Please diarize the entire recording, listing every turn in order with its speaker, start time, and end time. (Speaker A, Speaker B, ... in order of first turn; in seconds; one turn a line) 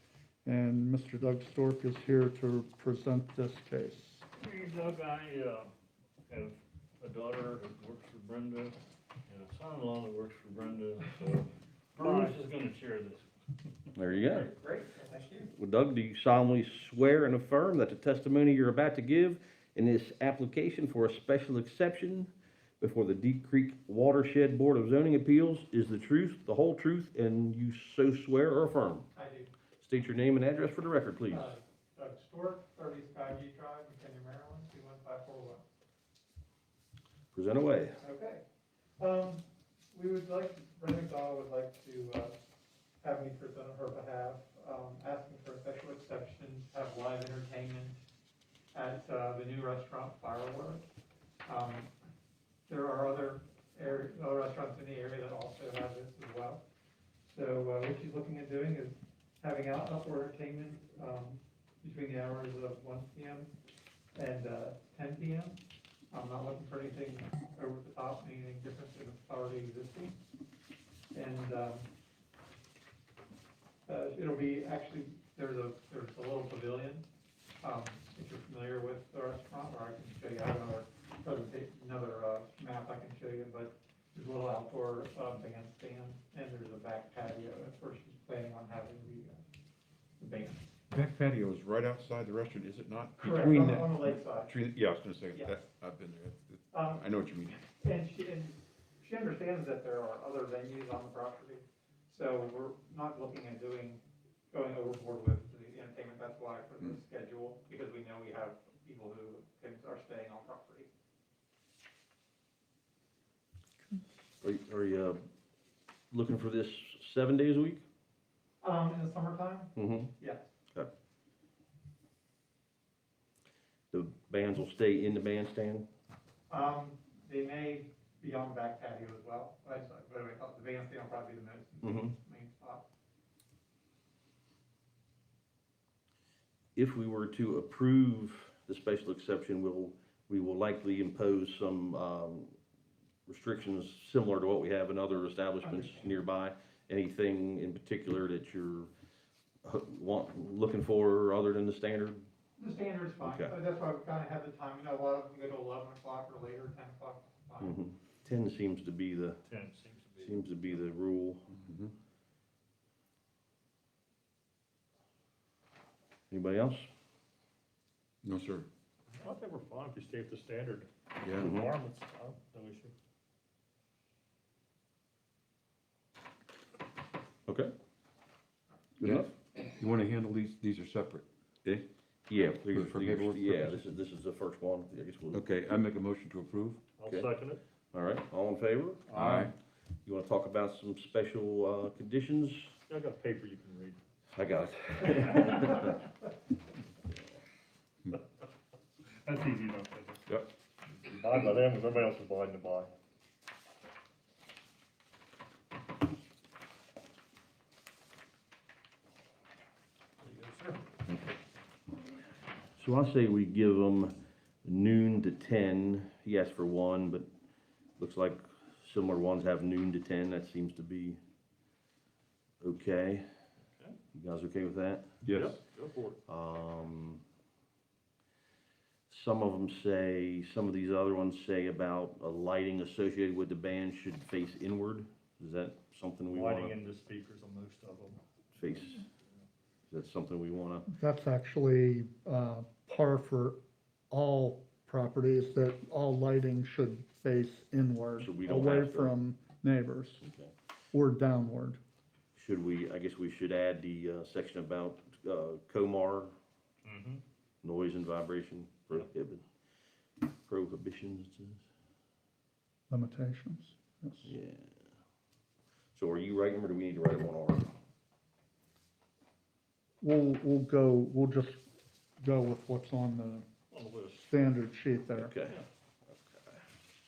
Speaker A: 0.5-4.2
Speaker B: 4.3-5.7
Speaker B: 6.3-13.3
Speaker C: 13.9-14.5
Speaker D: 14.0-15.5
Speaker C: 15.5-29.1
Speaker D: 29.1-29.5
Speaker C: 29.8-31.5
Speaker D: 31.3-35.6
Speaker C: 37.3-38.0
Speaker D: 38.0-38.4
Speaker D: 39.0-42.4
Speaker D: 43.0-48.0
Speaker D: 48.7-50.8
Speaker D: 51.5-51.9
Speaker D: 52.7-56.6
Speaker D: 57.3-63.5
Speaker D: 64.2-65.6
Speaker D: 66.1-70.2
Speaker D: 71.1-71.9
Speaker D: 73.9-77.1
Speaker D: 77.6-89.4
Speaker D: 90.2-90.6
Speaker E: 90.9-97.6
Speaker D: 93.2-94.5
Speaker D: 96.7-97.0
Speaker D: 97.8-110.9
Speaker C: 114.4-115.2
Speaker C: 116.1-117.8
Speaker D: 118.6-120.5
Speaker C: 119.8-120.1
Speaker C: 123.9-125.9
Speaker D: 126.5-132.8
Speaker C: 131.8-132.1
Speaker C: 136.8-142.5
Speaker C: 143.3-148.9
Speaker D: 145.6-146.1
Speaker C: 149.6-152.2
Speaker D: 152.6-157.8
Speaker C: 153.2-153.6
Speaker C: 157.6-159.4
Speaker B: 159.5-160.5
Speaker C: 160.2-161.5
Speaker E: 161.6-161.9
Speaker C: 166.3-166.9
Speaker E: 168.2-168.7
Speaker B: 169.2-170.9
Speaker E: 171.2-171.6
Speaker C: 171.4-171.7
Speaker B: 171.4-172.9
Speaker E: 179.0-181.9
Speaker C: 179.0-179.3
Speaker C: 182.3-185.4
Speaker E: 182.7-183.8
Speaker E: 185.3-186.8
Speaker B: 187.0-187.6
Speaker C: 187.9-189.1
Speaker B: 189.1-189.5
Speaker E: 189.1-189.5
Speaker C: 190.1-192.8
Speaker B: 192.9-194.0
Speaker C: 194.3-196.0
Speaker B: 199.2-200.2
Speaker B: 200.9-202.9
Speaker B: 210.2-210.8
Speaker C: 212.8-217.3
Speaker C: 218.0-221.2
Speaker C: 222.6-223.2
Speaker C: 224.2-225.1
Speaker E: 225.2-225.6
Speaker B: 225.3-226.2
Speaker C: 226.3-227.2
Speaker C: 229.1-236.7
Speaker B: 236.3-238.2
Speaker C: 238.6-239.0
Speaker C: 239.9-240.9
Speaker A: 240.9-243.6
Speaker A: 244.1-250.2
Speaker C: 248.2-249.1
Speaker C: 250.2-250.5
Speaker A: 250.9-251.8
Speaker C: 252.4-256.3
Speaker B: 256.8-257.2
Speaker C: 257.6-259.4
Speaker C: 260.5-261.6
Speaker A: 262.9-264.3
Speaker C: 264.2-264.7
Speaker C: 265.9-267.7
Speaker A: 270.0-271.6
Speaker A: 272.2-273.5
Speaker B: 273.7-274.3
Speaker A: 274.3-275.3
Speaker C: 275.2-276.6